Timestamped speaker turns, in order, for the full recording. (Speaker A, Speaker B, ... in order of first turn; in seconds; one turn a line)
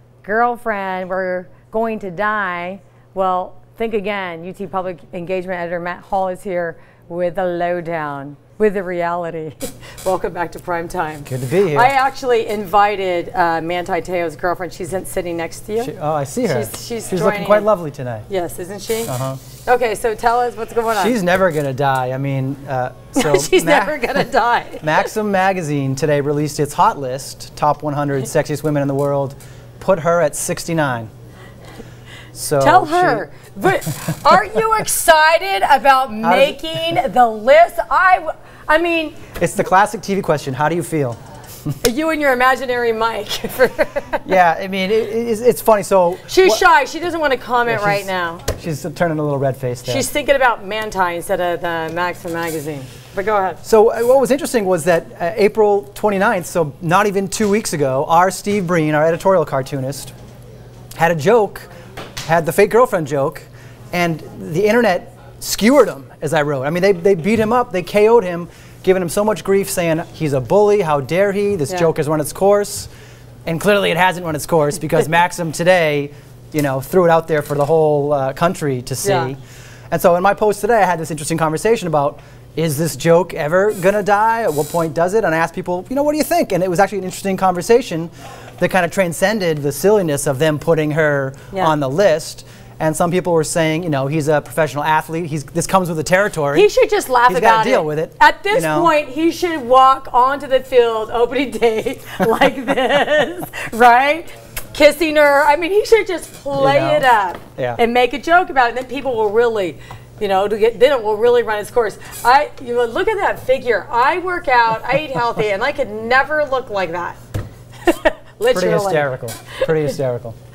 Speaker A: 0.2-15.9
Speaker B: 11.3-11.9
Speaker B: 15.8-18.3
Speaker A: 16.4-17.7
Speaker A: 18.3-19.1
Speaker B: 19.1-19.4
Speaker A: 19.6-21.2
Speaker B: 21.0-24.1
Speaker A: 23.1-25.1
Speaker B: 24.8-31.1
Speaker B: 32.4-33.3
Speaker A: 32.6-39.3
Speaker B: 36.2-36.6
Speaker B: 39.4-41.2
Speaker A: 41.8-44.3
Speaker B: 44.2-46.6
Speaker A: 46.3-48.5
Speaker B: 47.7-50.1
Speaker A: 49.9-53.6
Speaker B: 53.6-60.1
Speaker B: 61.0-61.7
Speaker B: 62.2-72.9
Speaker B: 73.5-79.4
Speaker A: 79.0-79.3
Speaker B: 79.9-96.7
Speaker A: 96.5-117.2
Speaker B: 97.3-98.9
Speaker B: 106.5-107.8
Speaker A: 117.8-119.9
Speaker B: 118.5-120.3